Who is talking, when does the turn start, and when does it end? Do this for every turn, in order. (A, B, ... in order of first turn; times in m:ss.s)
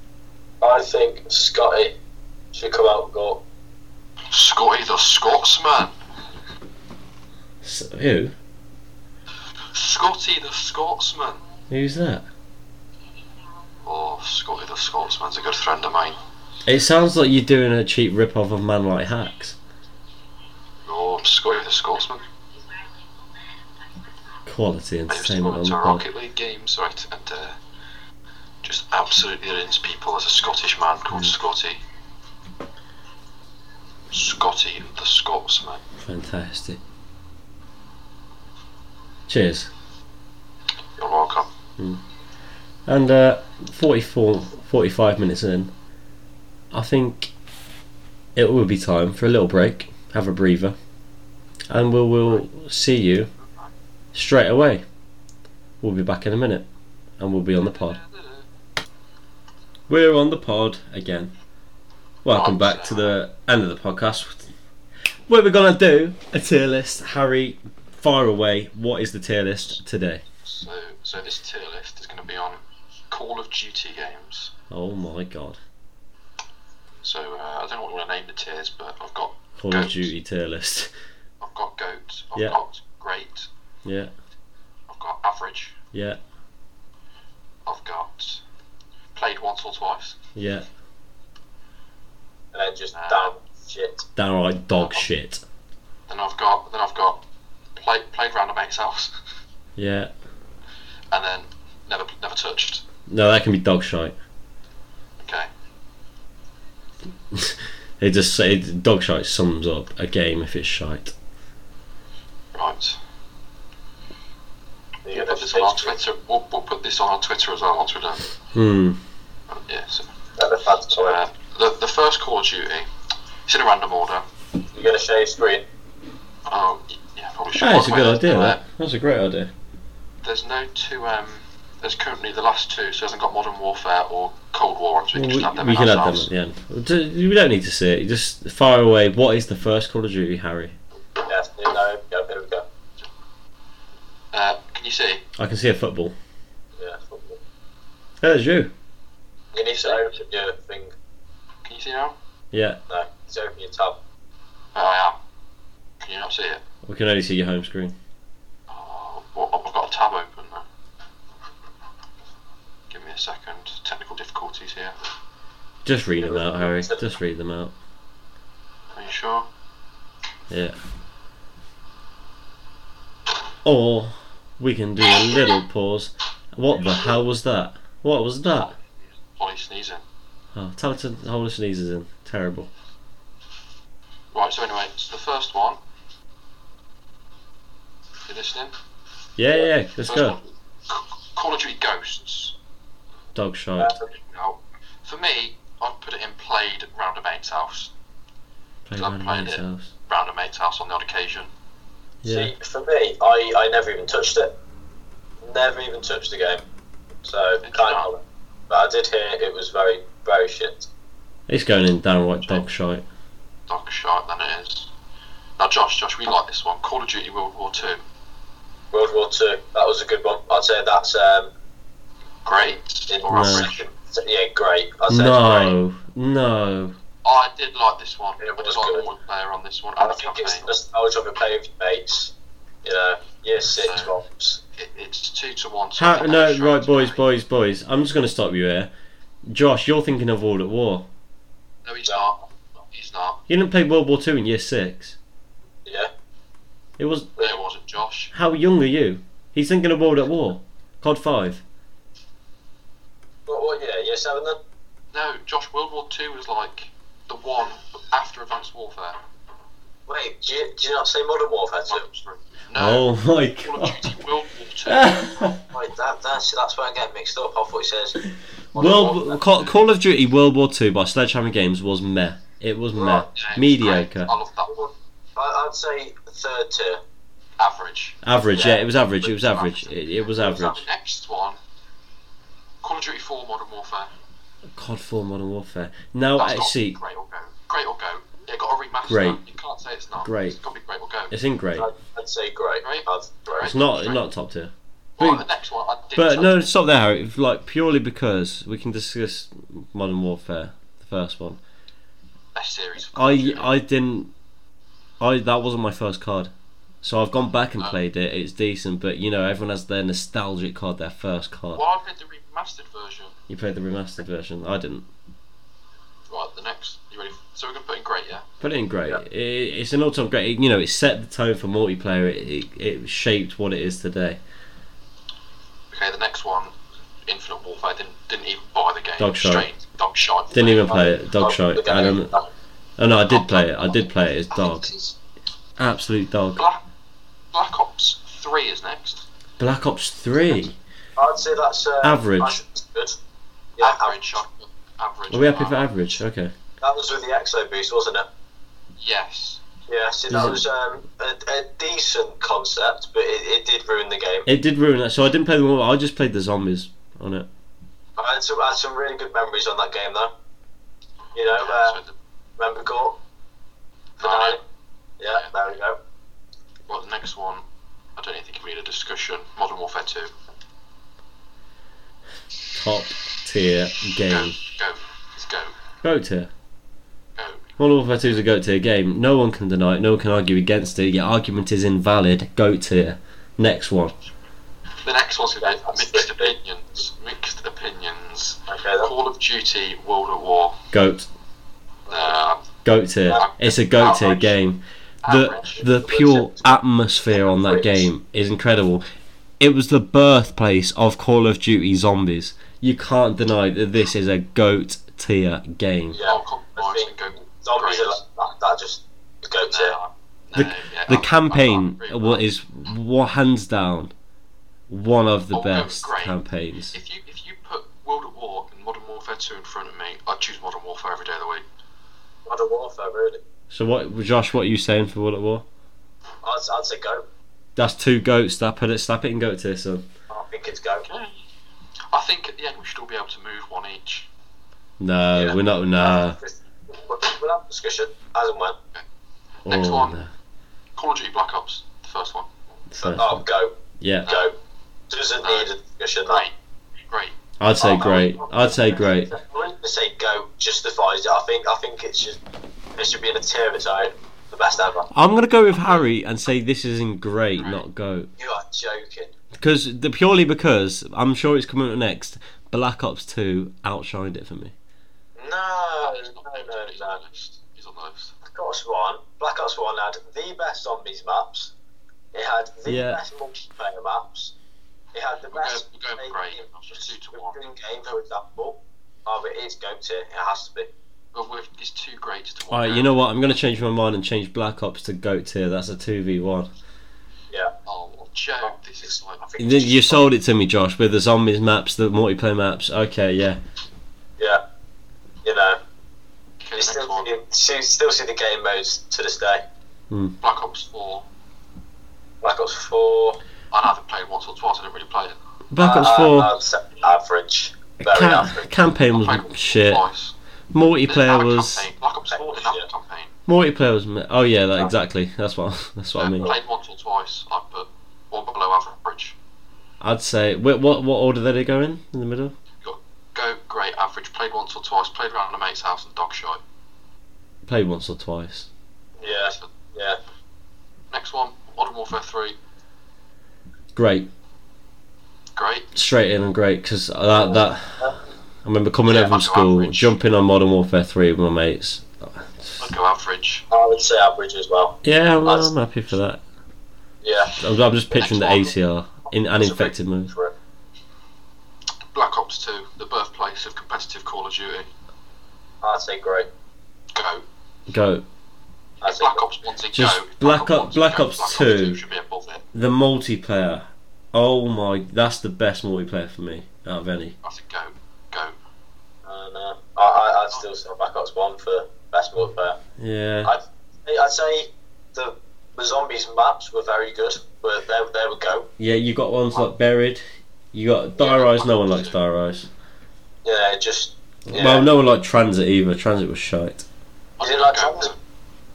0:00.6-0:01.9 A
0:02.5-0:03.4 A
0:04.3-0:05.9 B
0:07.6-0:08.3 C
0:09.7-0:11.4 B
0:11.7-0:12.2 C
0:13.8-0:16.2 B
0:16.6-0:19.6 C
0:20.8-0:22.2 B
0:24.4-0:26.0 C
0:25.1-0:27.6 B
0:28.6-0:31.8 B
0:34.1-0:35.8 B
0:36.0-0:36.8 C
0:39.3-0:39.7 C
0:41.0-0:41.5 B
0:42.9-0:45.7 C
0:46.7-0:47.3 C
0:48.4-0:50.8 C
0:51.7-0:53.3 C
0:53.4-0:53.7 B
0:54.1-0:54.8 C
0:55.8-0:56.6 C
0:57.2-0:58.0 C
0:57.6-0:58.4 B
0:59.9-1:01.3 C
1:02.2-1:04.5 C
1:02.3-1:03.2 B
1:05.3-1:10.2 C
1:10.4-1:12.6 B
1:13.1-1:14.5 B
1:14.7-1:15.6 C
1:17.0-1:20.1 B
1:19.6-1:20.9 C
1:21.4-1:23.5 B
1:23.8-1:24.1 C
1:24.9-1:25.8 B
1:25.9-1:26.2 C
1:27.6-1:28.4 B
1:29.1-1:30.2 B
1:30.4-1:30.7 C
1:32.5-1:34.0 A
1:32.9-1:33.3 B
1:34.2-1:35.4 C
1:36.1-1:37.2 B
1:37.7-1:39.1 B
1:39.8-1:40.1 C
1:41.1-1:42.8 B
1:43.1-1:44.1 C
1:45.2-1:45.5 B
1:47.3-1:51.1 C
1:52.5-1:53.0 B
1:55.0-1:55.9 A
1:55.1-1:58.3 B
1:58.5-1:59.0 C
1:59.5-2:00.1 B
2:00.4-2:01.2 A
2:00.9-2:02.9 B
2:03.5-2:04.2 B
2:04.7-2:05.6 A
2:06.4-2:08.6 B
2:07.6-2:09.5 C
2:10.2-2:16.3 B
2:15.1-2:20.7 C
2:21.2-2:22.6 A
2:24.3-2:25.2 B
2:25.4-2:26.1 C
2:26.8-2:27.4 A
2:28.2-2:28.7 C
2:29.5-2:30.9 A
2:29.7-2:30.0 B
2:31.6-2:32.1 B
2:32.5-2:32.8 C
2:32.9-2:34.0 A
2:34.7-2:35.2 B
2:36.0-2:36.6 B
2:36.8-2:37.9 C
2:38.7-2:40.6 B
2:42.9-2:44.9 B
2:45.8-2:47.7 C
2:46.2-2:47.0 A
2:48.9-2:49.5 B
2:50.5-2:50.8 C
2:53.6-2:58.7 C
2:59.3-3:00.0 B
3:00.5-3:02.7 C
3:04.3-3:05.8 B
3:08.3-3:08.7 B
3:09.4-3:10.4 C
3:10.0-3:12.5 B
3:13.3-3:13.9 C
3:13.8-3:14.1 A
3:14.1-3:17.9 B
3:18.8-3:19.9 C
3:19.0-3:21.5 B
3:22.2-3:22.5 C
3:22.2-3:24.5 A
3:25.4-3:26.6 A
3:27.2-3:30.9 A
3:27.6-3:28.1 B
3:31.5-3:33.0 C
3:33.7-3:34.9 B
3:35.6-3:38.0 B
3:38.9-3:41.5 A
3:42.4-3:43.8 B
3:43.1-3:45.8 A
3:43.3-3:43.7 C
3:45.1-3:46.9 C
3:47.2-3:50.7 B
3:48.4-3:49.1 A
3:50.0-3:52.3 A
3:52.8-3:54.6 A
3:53.6-3:54.1 B
3:54.8-3:57.2 B
3:56.0-3:58.9 C
3:59.5-4:01.1 C
4:01.8-4:02.4 B
4:02.9-4:03.4 B
4:03.5-4:05.2 C
4:05.8-4:06.1 A
4:07.0-4:07.3 C
4:07.4-4:08.3 B
4:08.3-4:11.6 C
4:13.5-4:14.6 A
4:15.1-4:19.2 B
4:20.1-4:22.0 A
4:21.9-4:23.1 B
4:22.7-4:24.2 C
4:23.6-4:25.3 B
4:24.8-4:25.6 C
4:25.6-4:28.2 A
4:28.7-4:29.4 A
4:28.7-4:34.3 C
4:32.9-4:33.2 A
4:33.3-4:34.8 B
4:34.6-4:37.0 A
4:37.6-4:38.2 B
4:38.2-4:40.8 C
4:38.5-4:38.9 A
4:39.3-4:41.6 B
4:42.8-4:44.1 B
4:44.7-4:47.0 C
4:46.4-4:51.3 B
4:49.0-4:49.4 C
4:50.2-4:50.6 C
4:51.3-4:51.9 C
4:51.8-4:53.7 A
4:52.8-4:54.2 B
4:53.6-4:55.4 C
4:55.2-4:56.7 B
4:56.2-5:01.6 C
5:02.5-5:03.7 B
5:03.1-5:04.3 C
5:05.2-5:06.5 C
5:07.0-5:11.8 C
5:11.7-5:13.3 B
5:13.5-5:15.1 C
5:16.3-5:18.4 B
5:18.6-5:24.4 C
5:25.9-5:26.7 B
5:27.2-5:31.0 B
5:29.2-5:29.7 C
5:30.5-5:32.4 C
5:30.9-5:32.5 A
5:33.0-5:34.9 C
5:33.3-5:33.9 B
5:34.5-5:35.2 B
5:35.8-5:36.6 C
5:37.5-5:39.2 B
5:39.6-5:40.8 C
5:41.2-5:43.2 A
5:42.0-5:42.6 C
5:43.8-5:44.4 A
5:43.8-5:45.9 B
5:45.3-5:46.5 C
5:46.8-5:48.3 A
5:49.0-5:49.6 B
5:49.9-5:54.5 A
5:50.3-5:50.6 C
5:54.4-5:57.5 C
5:58.2-6:00.3 A
6:01.3-6:02.0 A
6:01.4-6:02.1 B
6:02.6-6:03.2 A
6:04.2-6:04.6 B
6:04.2-6:04.6 A
6:05.2-6:06.0 A
6:06.9-6:07.6 B
6:08.2-6:10.3 B
6:12.7-6:14.6 C
6:14.3-6:15.8 B
6:16.0-6:16.5 C
6:17.4-6:17.7 B
6:17.8-6:24.1 C
6:25.0-6:30.8 B
6:25.6-6:26.5 A
6:28.7-6:29.1 A
6:30.9-6:31.3 C
6:32.1-6:32.4 A
6:32.1-6:32.6 B
6:32.8-6:39.0 C
6:33.3-6:34.5 B
6:35.2-6:35.9 B
6:35.8-6:38.1 A
6:39.6-6:46.2 C
6:46.1-6:47.1 A
6:46.2-6:48.2 B
6:47.6-6:50.0 A
6:49.7-6:52.4 B
6:50.5-6:54.1 C
6:54.9-6:57.0 C
6:55.5-6:56.4 B
6:56.9-7:01.6 B
7:02.4-7:03.4 A
7:03.7-7:05.6 C
7:06.4-7:07.2 A
7:07.8-7:10.0 C
7:10.3-7:11.0 A
7:11.0-7:11.4 B
7:12.1-7:14.3 B
7:15.0-7:16.4 C
7:15.3-7:18.8 A
7:19.6-7:20.2 B
7:19.6-7:20.3 C
7:21.0-7:22.5 B
7:22.9-7:23.4 C
7:23.0-7:23.7 A
7:24.0-7:24.3 C
7:24.2-7:24.5 A
7:25.1-7:26.4 A
7:25.4-7:25.7 B
7:26.2-7:26.5 B
7:27.1-7:27.3 B
7:27.6-7:29.4 C
7:27.8-7:32.4 A
7:32.9-7:35.1 A
7:35.1-7:38.3 C
7:37.6-7:37.8 B
7:38.4-7:39.3 A
7:39.5-7:44.7 C
7:45.4-7:47.2 A
7:46.0-7:48.4 B
7:48.4-7:51.7 A
7:52.3-7:54.5 A
7:52.9-7:53.2 C
7:55.1-8:00.9 A
7:55.5-7:57.6 B
8:01.3-8:03.2 B
8:02.7-8:06.7 C
8:07.8-8:09.4 B
8:08.7-8:10.3 A
8:09.6-8:13.6 C
8:15.4-8:15.8 A
8:16.6-8:17.3 B
8:16.8-8:19.6 A
8:20.1-8:20.3 C
8:20.4-8:21.2 B
8:22.4-8:23.4 A
8:23.7-8:25.4 B
8:25.7-8:26.5 C
8:25.8-8:28.7 A
8:28.0-8:30.0 C
8:29.1-8:30.3 B
8:30.7-8:31.9 C
8:31.0-8:33.4 B
8:32.3-8:32.8 A
8:33.5-8:36.5 C
8:36.2-8:39.4 B
8:40.0-8:42.5 C
8:42.8-8:46.6 B
8:47.6-8:48.7 C
8:49.2-8:50.2 A
8:49.2-8:49.7 B
8:51.1-8:52.6 B
8:53.9-8:54.3 C
8:55.6-8:55.9 B
8:55.9-8:58.1 C
8:57.3-8:58.2 A
8:58.6-9:02.9 C
8:59.1-9:00.2 B
9:02.8-9:03.6 B
9:03.7-9:05.7 A
9:05.0-9:06.4 C
9:07.2-9:07.5 A
9:07.6-9:10.3 C
9:08.1-9:08.7 B
9:09.6-9:10.5 A
9:12.1-9:14.9 B
9:15.8-9:16.5 A
9:17.1-9:17.4 B
9:17.9-9:18.2 C
9:19.0-9:19.4 A
9:19.0-9:22.6 B
9:19.9-9:22.0 C
9:22.7-9:27.4 C
9:27.4-9:28.6 B
9:29.2-9:32.8 A
9:33.0-9:33.5 C
9:33.4-9:38.7 A
9:38.8-9:40.2 C
9:40.7-9:42.7 C
9:41.2-9:41.6 A
9:41.3-9:42.0 B
9:43.4-9:44.9 A
9:44.5-9:46.8 C
9:47.4-9:48.2 B
9:47.4-9:48.1 A